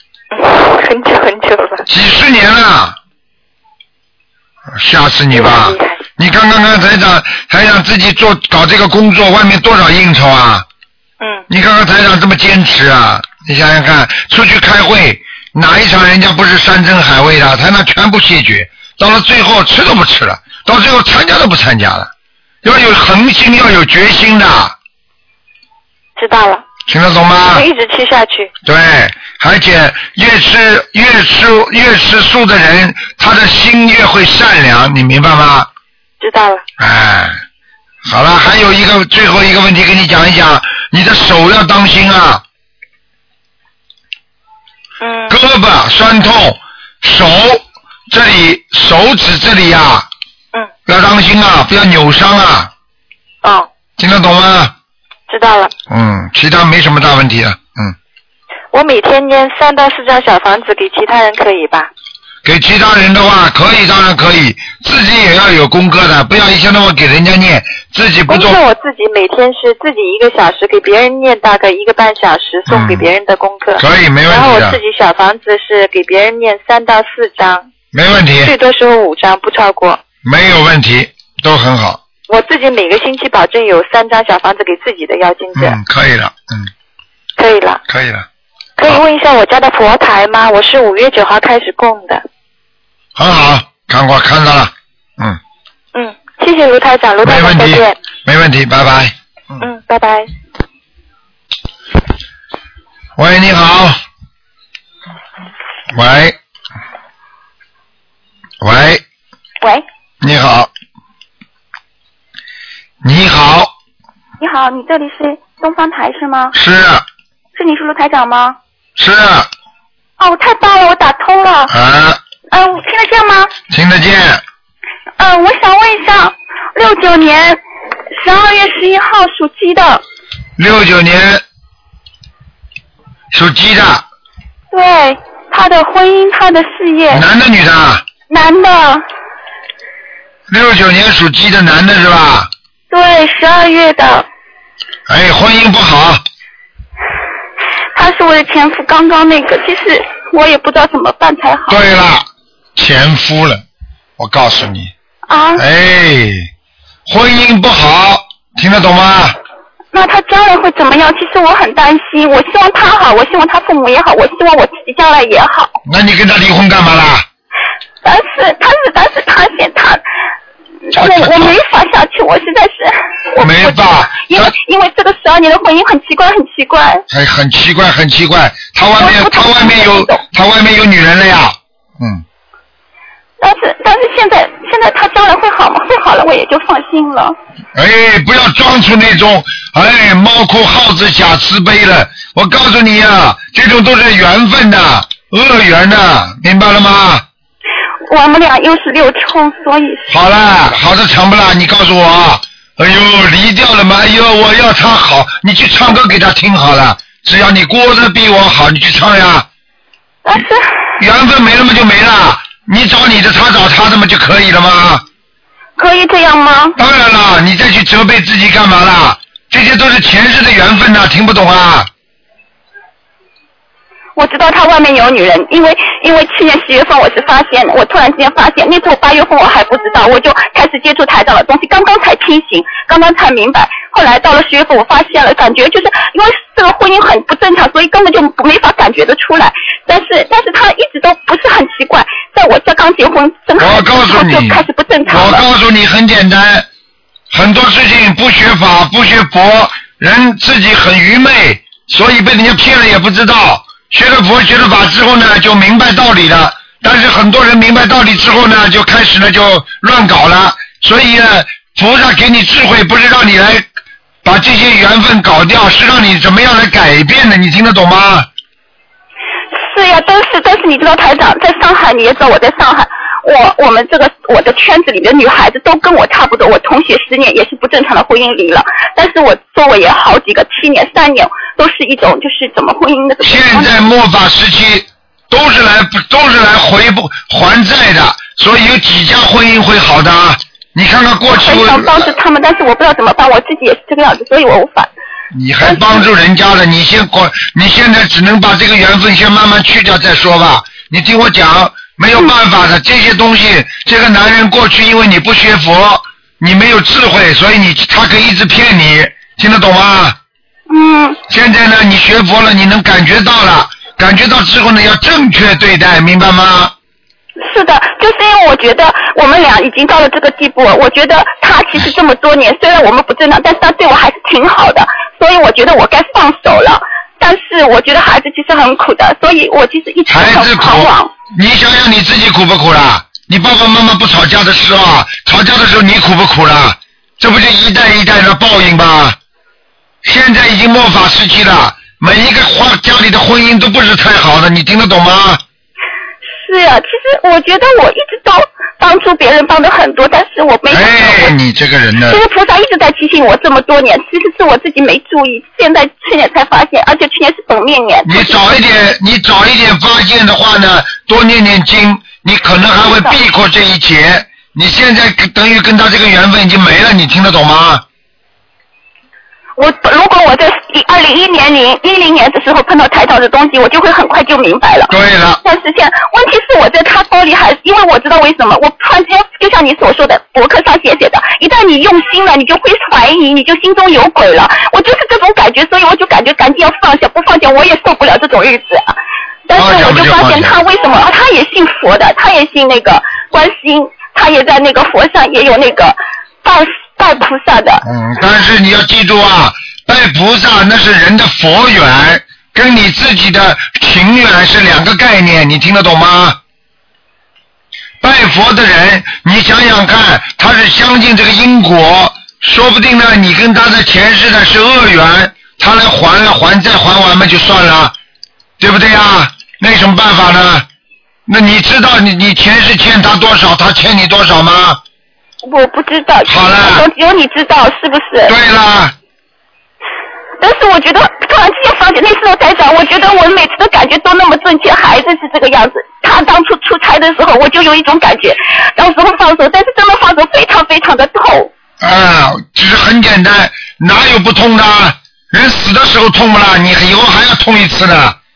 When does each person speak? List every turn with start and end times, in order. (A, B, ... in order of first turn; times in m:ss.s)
0:00.3-0:01.8 A
0:01.9-0:03.0 B
0:04.7-0:10.6 B
0:05.3-0:06.0 A
0:11.2-0:11.4 A
0:11.5-0:22.1 B
0:22.6-0:24.7 B
0:26.2-0:26.6 A
0:26.9-0:27.6 B
0:27.5-0:28.5 A
0:28.6-0:35.7 B
0:36.2-0:36.6 A
0:36.8-0:37.4 B
0:38.0-0:42.4 B
0:45.0-0:45.4 A
0:45.3-0:50.1 B
0:50.8-0:52.7 B
0:54.0-0:54.7 B
0:55.3-0:55.7 A
0:55.9-0:57.9 B
0:58.7-1:01.9 A
1:02.4-1:08.6 B
1:08.3-1:17.7 A
1:12.7-1:13.1 B
1:13.8-1:14.8 B
1:17.9-1:18.5 B
1:18.4-1:20.0 A
1:20.2-1:22.0 B
1:22.3-1:25.8 A
1:25.5-1:26.7 B
1:27.4-1:27.8 A
1:27.9-1:28.2 B
1:28.8-1:32.2 A
1:33.2-1:35.4 B
1:35.9-1:38.0 A
1:37.2-1:39.6 B
1:39.6-1:40.3 A
1:43.2-1:44.0 B
1:45.9-1:46.4 B
1:48.6-1:49.0 B
1:50.2-1:50.7 B
1:53.0-1:53.7 B
1:54.4-1:56.5 C
1:56.5-1:57.0 B
1:57.5-1:58.6 C
1:59.0-1:59.5 B
2:00.2-2:01.7 C
2:01.7-2:02.2 B
2:02.5-2:03.5 C
2:03.7-2:04.4 B
2:05.2-2:07.6 C
2:08.2-2:10.0 C
2:10.6-2:11.4 B
2:13.3-2:14.0 B
2:14.7-2:17.2 C
2:17.1-2:18.0 B
2:18.3-2:19.0 C
2:20.5-2:22.5 B
2:22.9-2:24.3 C
2:25.1-2:26.2 B
2:27.9-2:31.8 C
2:31.7-2:33.6 B
2:34.2-2:34.9 B
2:35.3-2:35.6 C
2:35.6-2:36.5 B
2:37.0-2:39.4 B
2:39.9-2:45.8 C
2:45.8-2:47.2 B
2:48.0-2:50.0 C
2:50.9-2:57.0 C
2:50.9-2:51.6 B
2:53.4-2:54.5 B
2:57.1-3:02.2 B
2:59.0-3:00.2 C
3:03.4-3:07.4 C
3:07.7-3:17.2 B
3:18.1-3:20.1 C
3:20.1-3:29.4 B
3:30.2-3:30.6 C
3:31.0-3:35.0 B
3:35.8-3:36.8 C
3:36.8-3:41.9 B
3:44.2-4:05.4 C
4:03.6-4:06.7 B
4:07.3-4:23.6 B
4:24.2-4:28.3 B
4:29.6-4:43.8 C
4:43.2-4:52.1 B
4:51.3-4:54.9 C
4:55.3-5:10.2 B
4:55.6-4:56.1 C
5:10.7-5:11.2 C
5:11.3-5:16.7 B
5:17.4-5:31.1 C
5:30.1-5:39.2 B
5:40.0-5:45.4 B
5:46.2-5:51.4 C
5:50.7-5:52.2 B
5:52.0-5:58.4 C
5:58.0-6:07.8 B
6:02.8-6:03.2 C
6:09.6-6:29.0 C
6:14.9-6:15.4 B
6:29.5-6:37.8 C
6:29.5-6:30.6 B
6:37.8-6:46.4 B
6:48.0-6:57.9 B
6:58.6-7:00.6 B
7:01.3-7:04.8 B
7:05.4-7:08.3 C
7:06.2-7:06.9 B
7:08.2-7:08.9 B
7:10.4-7:21.5 C
7:21.8-7:28.2 B